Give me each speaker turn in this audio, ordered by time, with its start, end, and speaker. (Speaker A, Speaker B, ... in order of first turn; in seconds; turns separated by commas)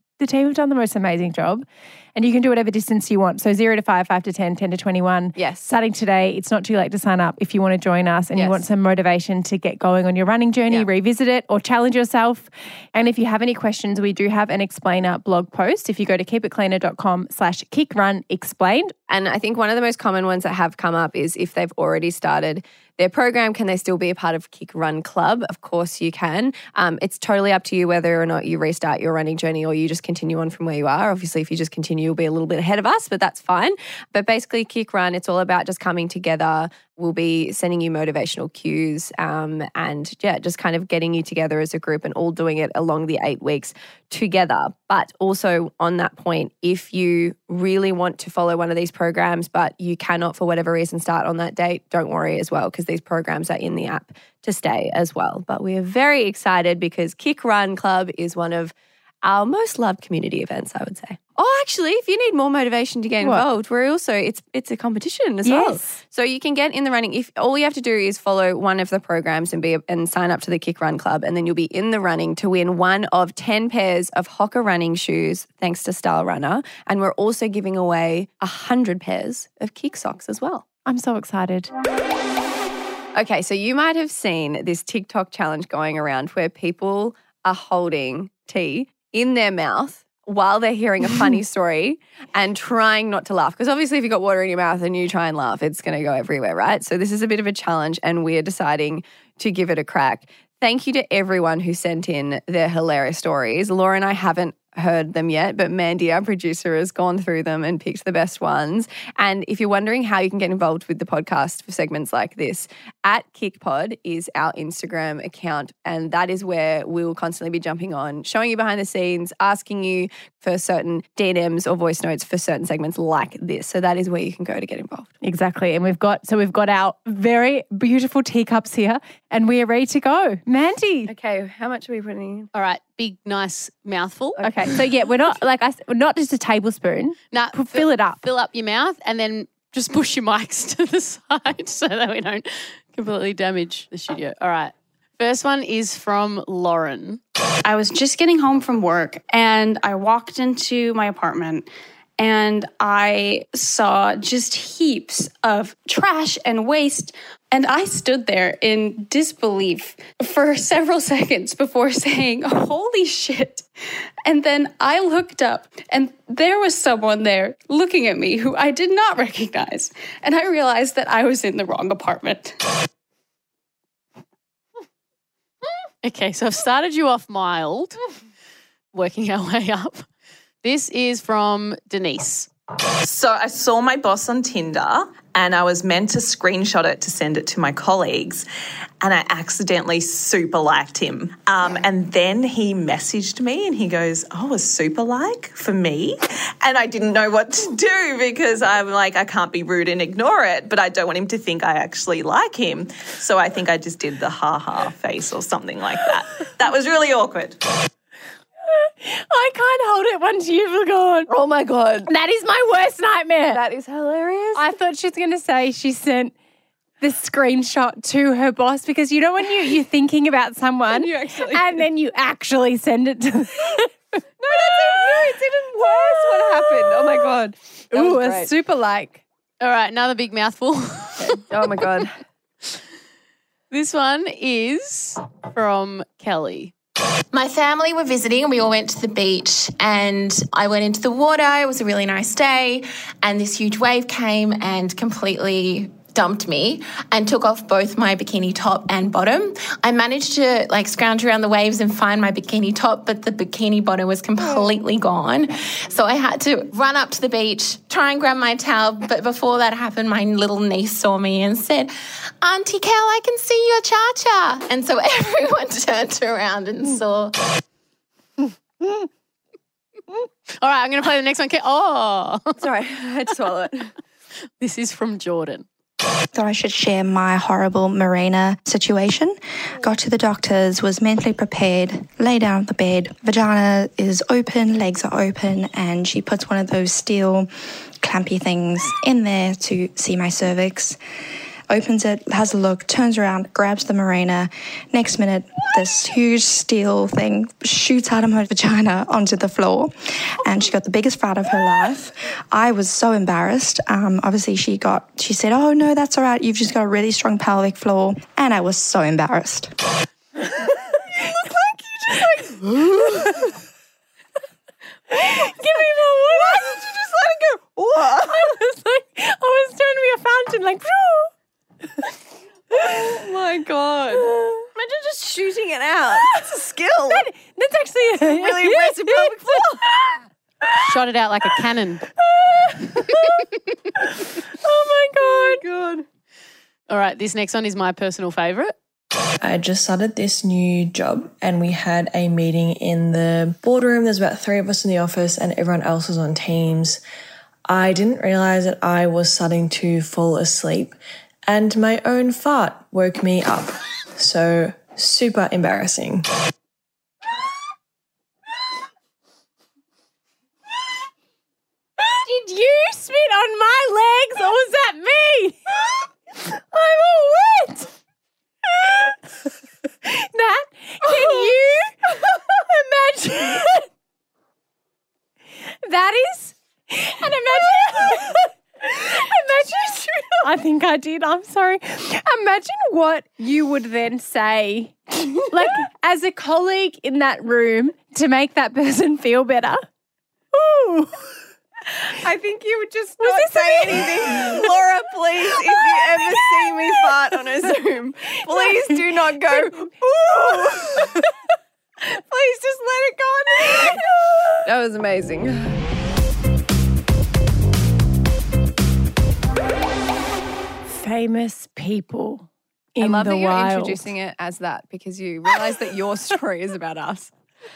Speaker A: 0.2-18.9, Speaker B: 5.4-5.7, Speaker B: 8.4-8.6, Speaker B: 19.1-80.7, Speaker A: 65.5-66.0, Speaker A: 80.9-81.7, Speaker B: 83.2-125.1, Speaker A: 125.2-131.1, Speaker B: 131.1-132.5, Speaker C: 132.5-134.4, Speaker B: 134.4-134.8, Speaker A: 134.4-138.2, Speaker C: 137.3-147.2, Speaker D: 147.6-163.7, Speaker D: 164.2-172.7, Speaker C: 176.0-178.0, Speaker C: 178.9-180.1, Speaker C: 180.6-182.5, Speaker E: 183.0-188.5, Speaker E: 189.0-207.7, Speaker A: 208.7-211.3, Speaker B: 211.3-212.1, Speaker A: 212.1-213.6, Speaker B: 213.5-214.7, Speaker A: 214.6-216.3, Speaker A: 217.0-223.9, Speaker B: 220.9-221.8, Speaker B: 224.4-228.5, Speaker A: 224.5-227.1, Speaker A: 227.9-229.2, Speaker C: 229.6-231.4, Speaker B: 231.2-232.2, Speaker C: 233.7-236.7, Speaker F: 237.3-267.4, Speaker C: 270.6-272.6, Speaker B: 272.6-273.9, Speaker C: 274.6-275.7, Speaker G: 276.3-291.0, Speaker G: 291.7-309.7, Speaker A: 312.1-312.5, Speaker B: 312.4-313.3, Speaker A: 315.1-316.8, Speaker B: 316.4-318.6, Speaker A: 318.3-321.3, Speaker B: 322.7-327.2, Speaker A: 324.2-324.7, Speaker A: 327.1-330.0, Speaker B: 328.2-330.0, Speaker C: 330.9-332.0, Speaker A: 332.2-335.6, Speaker B: 335.2-336.1, Speaker C: 336.9-338.7, Speaker H: 339.4-347.0, Speaker H: 347.7-356.3, Speaker A: 362.0-365.7, Speaker A: 366.4-367.9, Speaker A: 368.7-369.2, Speaker A: 370.0-373.9, Speaker A: 375.8-389.9, Speaker A: 390.5-391.2, Speaker B: 392.2-401.2, Speaker A: 393.2-394.6, Speaker A: 395.8-396.8, Speaker A: 398.5-399.0, Speaker B: 402.1-405.8, Speaker A: 410.9-414.0, Speaker B: 413.0-417.3